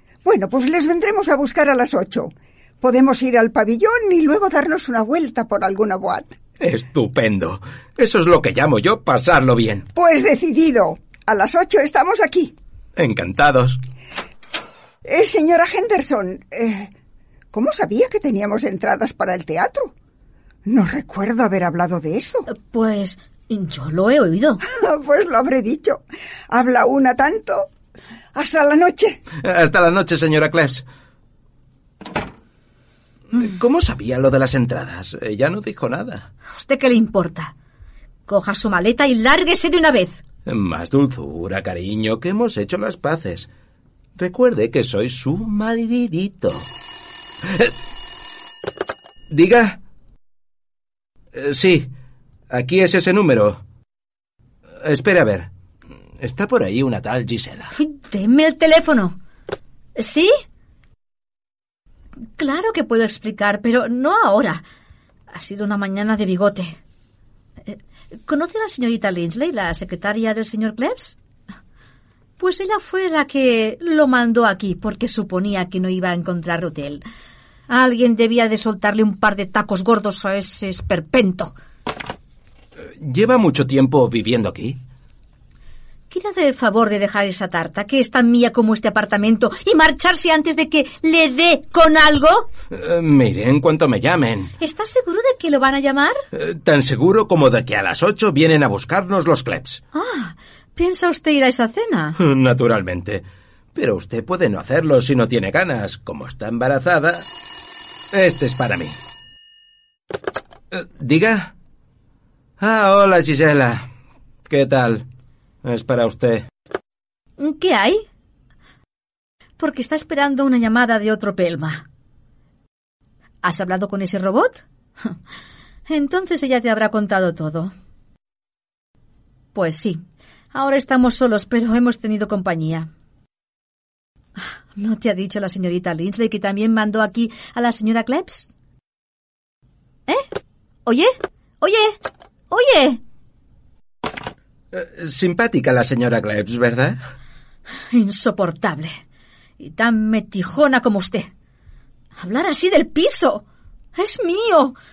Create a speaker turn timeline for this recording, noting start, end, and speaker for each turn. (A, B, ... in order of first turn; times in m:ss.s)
0:00.2-0:06.3 A
0:06.6-0:09.9 B
0:10.0-0:12.6 A
0:13.0-0:13.8 B
0:15.0-0:16.9 A
0:17.5-0:19.9 A
0:20.7-0:22.5 A
0:22.5-0:24.6 C
0:24.7-0:27.7 A
0:28.3-0:29.2 A
0:29.3-0:30.8 B
0:33.3-0:36.3 B
0:36.5-0:37.5 C
0:38.3-0:40.2 C
0:40.5-0:43.5 B
0:44.2-0:46.7 B
0:47.4-0:47.7 B
0:49.3-0:49.8 B
0:51.4-0:51.9 B
0:52.5-0:53.6 B
0:54.8-0:55.5 B
0:56.2-0:57.7 B
0:57.7-0:59.2 C
1:00.0-1:00.3 C
1:02.4-1:04.6 C
1:05.3-1:06.8 C
1:07.6-1:11.2 C
1:12.4-1:17.0 C
1:17.7-1:21.5 C
1:22.9-1:24.8 B
1:26.1-1:32.5 C
1:32.7-1:34.5 B
1:34.6-1:36.2 C
1:36.3-1:39.8 B
1:39.9-1:42.2 C
1:42.2-1:47.3 B
1:48.1-1:49.0 B
1:50.7-1:51.5 B
1:52.6-1:53.9 B
1:54.5-1:55.0 B
1:55.6-1:56.5 B
1:57.4-1:58.0 C
1:59.6-2:01.8 C
2:03.4-2:05.2 C
2:05.9-2:07.7 C
2:09.5-2:10.0 C
2:10.5-2:12.9 C
2:14.4-2:18.5 C
2:20.9-2:22.0 C
2:22.5-2:23.0 C
2:24.7-2:27.0 B
2:27.9-2:29.0 C
2:29.6-2:31.3 C
2:32.2-2:33.4 C
2:34.0-2:34.8 C